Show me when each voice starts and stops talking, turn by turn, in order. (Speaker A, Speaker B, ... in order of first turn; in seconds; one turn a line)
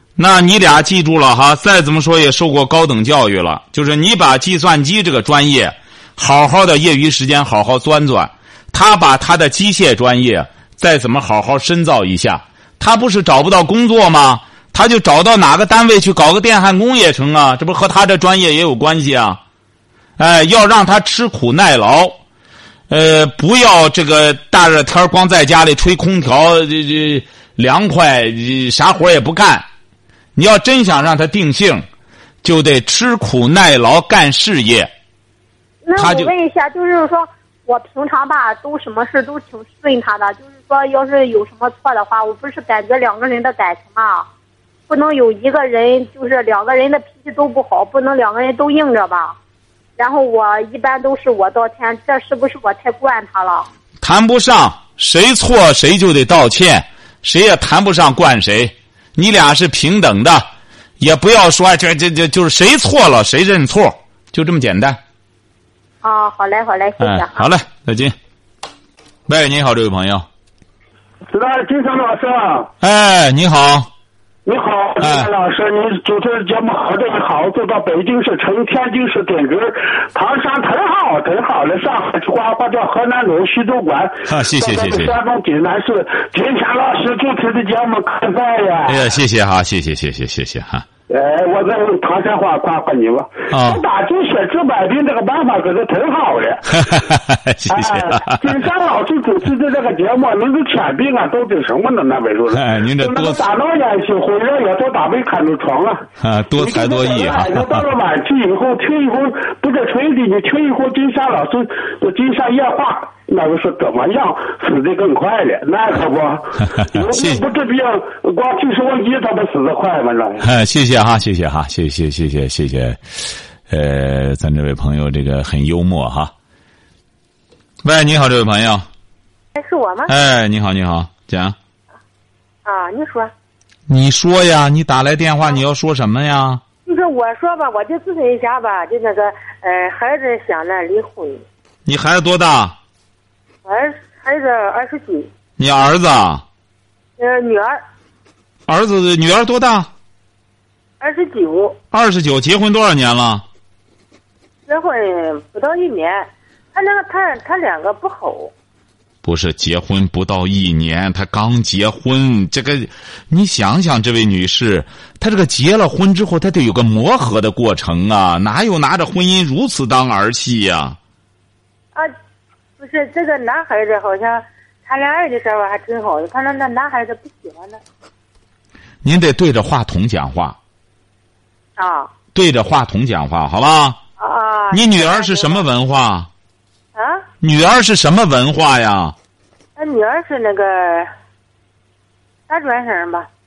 Speaker A: 0.2-19.4
Speaker A: 20.2-22.2
Speaker A: 22.9-29.7
Speaker A: 30.4-31.9
Speaker A: 32.4-34.9
Speaker B: 35.8-44.3
Speaker A: 36.0-36.3
Speaker B: 44.9-49.4
Speaker B: 50.0-53.7
Speaker A: 54.0-60.5
Speaker A: 61.0-65.0
Speaker B: 66.0-67.5
Speaker A: 67.0-68.1
Speaker A: 69.3-70.2
Speaker C: 71.3-72.7
Speaker A: 72.8-73.9
Speaker C: 74.5-89.1
Speaker A: 75.0-75.3
Speaker A: 84.3-85.2
Speaker A: 88.9-90.8
Speaker C: 91.1-96.8
Speaker A: 93.5-93.8
Speaker A: 96.7-98.5
Speaker C: 97.7-106.0
Speaker A: 102.5-103.4
Speaker A: 106.2-107.8
Speaker C: 106.6-120.5
Speaker A: 116.8-117.4
Speaker A: 120.4-126.3
Speaker A: 127.8-128.8
Speaker D: 129.5-130.1
Speaker A: 130.1-131.6
Speaker D: 132.6-133.3
Speaker A: 133.9-136.6
Speaker D: 136.8-141.4
Speaker A: 141.8-142.8
Speaker D: 143.6-145.3
Speaker A: 145.6-146.4
Speaker D: 147.2-147.8
Speaker A: 148.7-149.9
Speaker D: 151.0-151.8
Speaker A: 151.9-153.4
Speaker D: 154.7-158.5
Speaker A: 159.2-171.0
Speaker D: 172.8-177.8
Speaker A: 179.0-180.6
Speaker D: 181.8-182.1
Speaker A: 182.3-184.0
Speaker D: 184.2-185.6
Speaker A: 184.7-186.3
Speaker D: 186.9-187.2
Speaker A: 187.4-189.1
Speaker D: 189.8-191.1
Speaker D: 192.5-193.3